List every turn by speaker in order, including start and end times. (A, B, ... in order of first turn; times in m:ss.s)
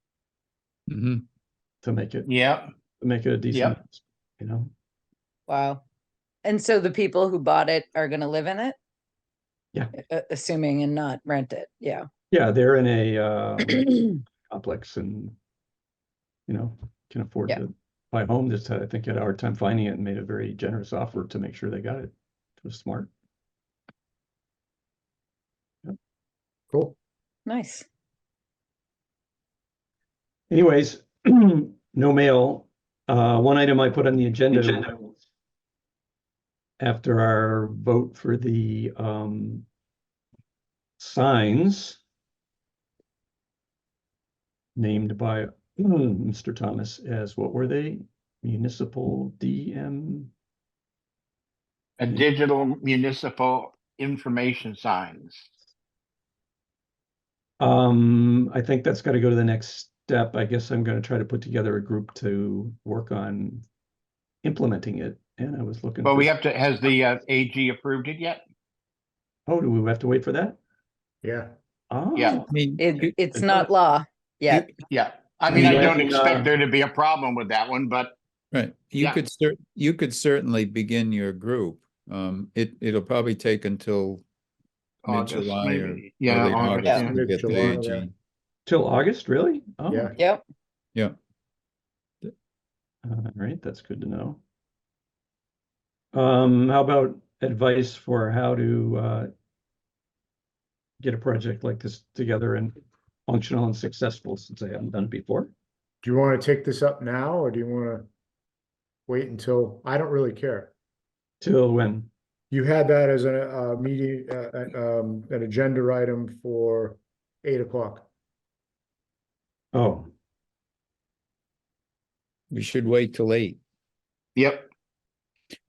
0:00.9-0:01.2 A
0:01.8-0:02.3 B
0:02.3-0:02.7 C
0:03.0-0:04.7 B
0:05.5-0:05.8 D
0:06.4-0:08.8 D
0:09.9-0:12.1 D
0:12.3-0:15.4 B
0:16.5-0:23.1 B
0:26.7-0:27.0 E
0:27.5-0:27.9 D
0:30.5-0:35.0 B
0:36.8-0:39.7 B
0:41.0-0:42.0 B
0:44.8-0:50.3 B
0:52.0-0:55.5 C
0:57.6-1:03.6 B
1:04.4-1:06.3 B
1:06.0-1:08.4 C
1:09.5-1:10.6 B
1:11.2-1:11.5 E
1:11.9-1:12.5 B
1:12.2-1:12.4 C
1:12.3-1:13.1 A
1:12.8-1:14.8 D
1:13.3-1:13.7 B
1:14.9-1:18.2 C
1:15.5-1:16.5 B
1:15.6-1:15.8 A
1:18.5-1:24.2 A
1:25.0-1:28.1 A
1:25.1-1:27.1 C
1:26.8-1:27.1 D
1:26.9-1:28.1 E
1:28.7-1:30.2 B
1:29.9-1:30.2 E
1:30.2-1:30.4 D
1:33.0-1:34.4 B
1:36.1-1:39.3 B
1:41.0-1:42.8 B
1:43.3-1:45.5 B
1:46.0-1:48.1 E
1:49.1-1:50.7 E
1:51.4-1:52.1 B
1:52.5-1:58.1 E
1:59.7-2:00.1 B
2:02.5-2:03.6 A
2:04.4-2:04.7 C